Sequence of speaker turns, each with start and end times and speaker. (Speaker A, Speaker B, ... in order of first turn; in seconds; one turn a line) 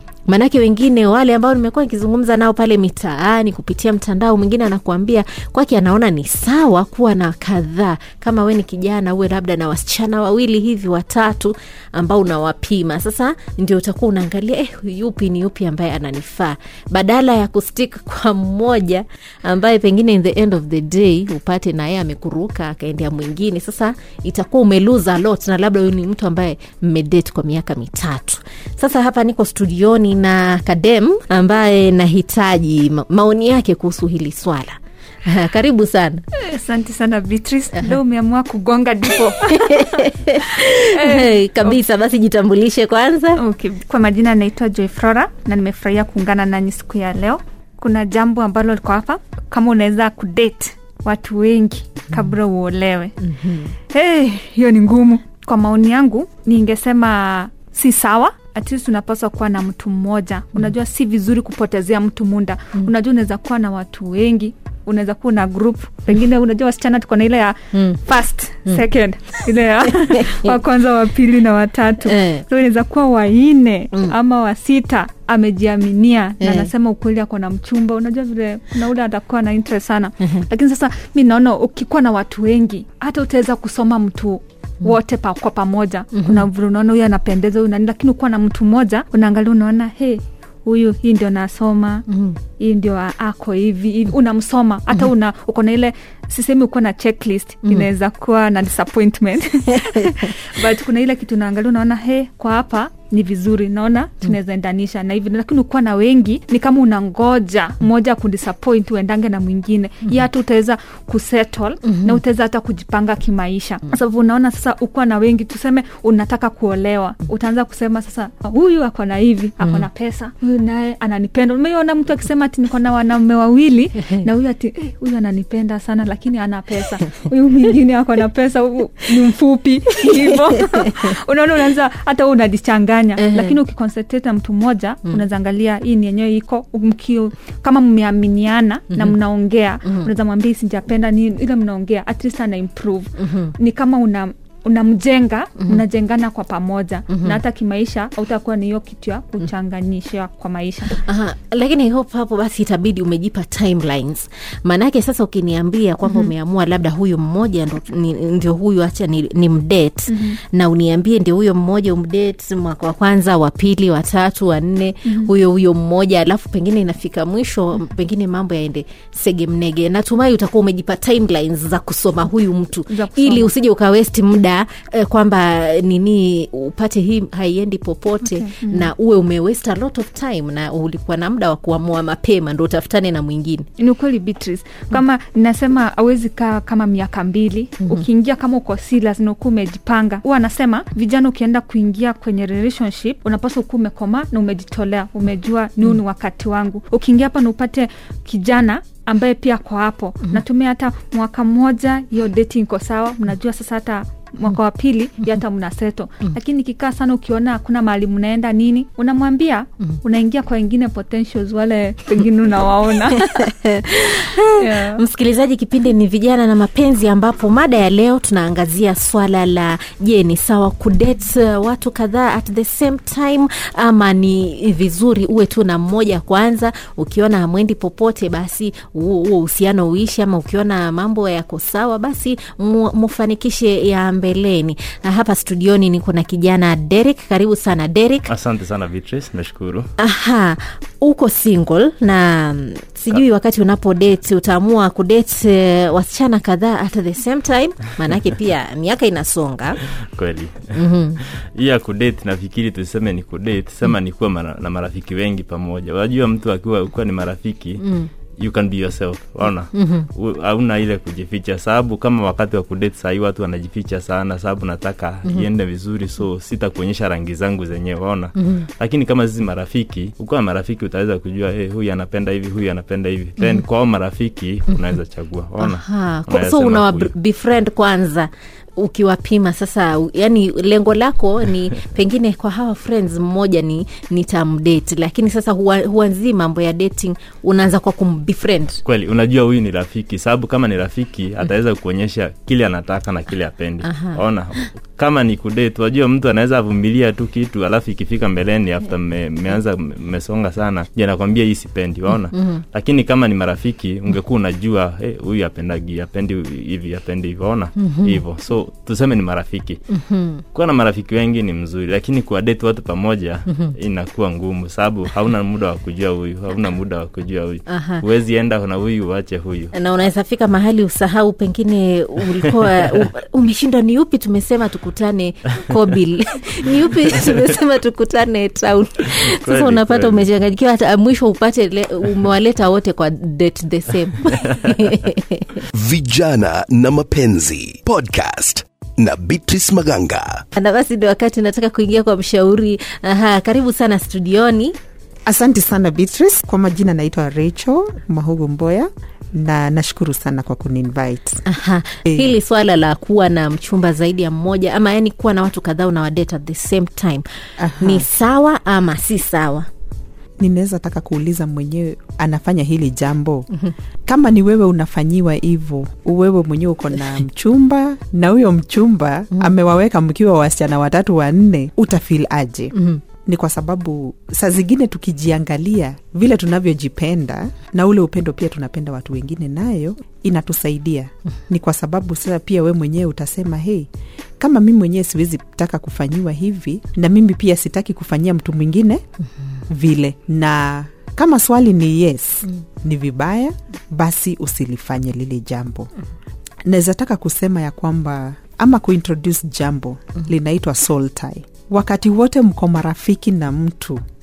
Speaker A: 0.3-36.2
Speaker B: 36.4-40.0
Speaker A: 37.7-38.0
Speaker A: 39.3-43.4
Speaker B: 40.6-41.8
Speaker B: 43.4-53.1
Speaker A: 53.2-53.7
Speaker B: 53.8-92.0
Speaker A: 67.7-68.0
Speaker A: 68.7-70.6
Speaker A: 72.0-72.4
Speaker A: 73.9-74.2
Speaker A: 76.4-76.7
Speaker A: 86.1-86.5
Speaker A: 92.1-92.4
Speaker B: 92.6-151.0
Speaker A: 97.6-97.9
Speaker A: 99.9-100.3
Speaker A: 111.8-112.2
Speaker A: 119.6-119.9
Speaker A: 130.1-130.9
Speaker A: 133.2-133.6
Speaker A: 138.9-139.2
Speaker A: 139.8-140.1
Speaker A: 143.2-143.5
Speaker A: 145.6-145.8
Speaker A: 147.1-147.4
Speaker A: 150.9-183.7
Speaker B: 160.1-160.4
Speaker B: 165.1-165.3
Speaker B: 172.9-173.5
Speaker B: 178.2-178.9
Speaker B: 183.8-213.4
Speaker A: 213.1-238.3
Speaker B: 214.6-215.0
Speaker C: 238.3-239.9
Speaker A: 240.0-249.8
Speaker C: 250.2-257.8
Speaker A: 250.7-251.2
Speaker A: 257.8-258.1
Speaker C: 258.4-277.1
Speaker A: 259.7-260.1
Speaker A: 268.4-268.7
Speaker A: 275.6-288.8
Speaker C: 288.9-309.8
Speaker A: 293.8-294.6
Speaker A: 302.3-302.6
Speaker A: 307.8-308.2
Speaker A: 309.9-310.4
Speaker C: 310.5-319.7
Speaker A: 317.7-318.0
Speaker A: 319.7-335.6
Speaker C: 329.1-330.3
Speaker D: 335.7-340.4
Speaker A: 340.5-344.8
Speaker E: 345.3-351.4
Speaker A: 351.5-357.2
Speaker E: 352.1-352.4
Speaker E: 357.6-358.1
Speaker A: 357.8-359.7
Speaker E: 360.4-363.5
Speaker E: 364.1-372.8
Speaker A: 372.7-373.0
Speaker E: 373.3-383.9
Speaker E: 384.4-389.0
Speaker E: 389.7-395.9
Speaker E: 396.7-404.0